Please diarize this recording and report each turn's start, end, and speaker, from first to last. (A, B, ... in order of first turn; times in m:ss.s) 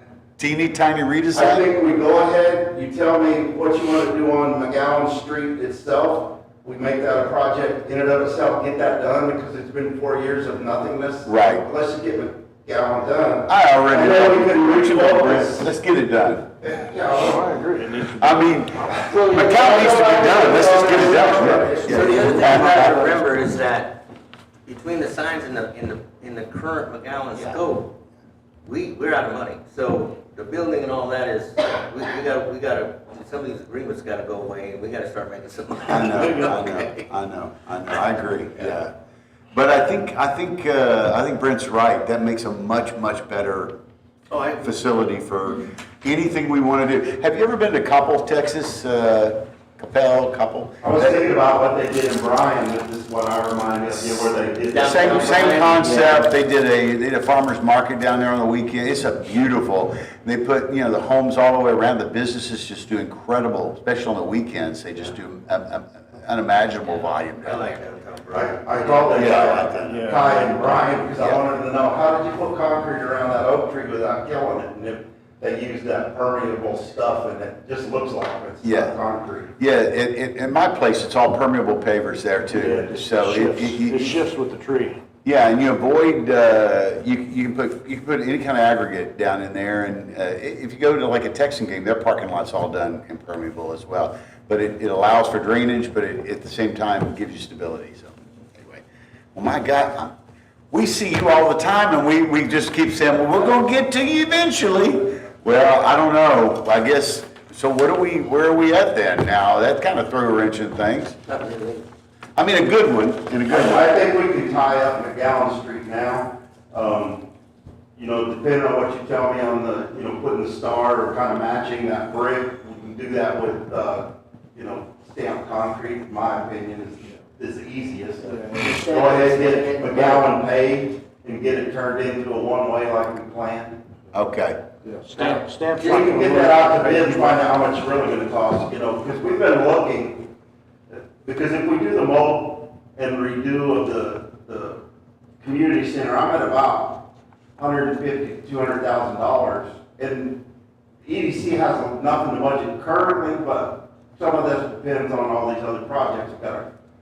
0:00.4-0:01.7 A
0:01.3-0:15.7 B
0:11.2-0:11.6 A
0:13.5-0:16.5 A
0:16.6-0:17.5 B
0:17.1-0:21.8 C
0:18.2-0:23.0 A
0:18.9-0:22.9 B
0:19.8-0:24.0 D
0:24.6-0:27.9 D
0:28.6-0:37.0 D
0:35.9-0:38.9 A
0:39.5-0:43.8 A
0:44.3-0:44.7 D
0:44.6-0:51.2 A
0:50.8-0:55.7 B
0:54.7-0:56.3 D
0:54.8-1:07.7 A
1:06.8-1:09.6 D
1:08.3-1:19.5 B
1:09.1-1:10.0 A
1:09.8-1:10.4 C
1:18.6-1:19.0 A
1:19.6-1:24.2 A
1:22.5-1:25.0 C
1:25.2-1:38.8 A
1:39.3-1:40.1 A
1:40.7-1:51.2 A
1:51.3-1:51.8 D
1:52.4-1:53.8 A
1:53.5-1:57.3 B
1:58.0-2:13.8 B
2:08.2-2:08.8 C
2:08.5-2:10.3 D
2:14.1-2:14.6 A
2:14.8-2:17.5 C
2:15.1-2:16.0 D
2:15.8-2:20.3 B
2:20.9-2:24.8 B
2:25.4-2:30.4 B
2:31.0-2:36.7 B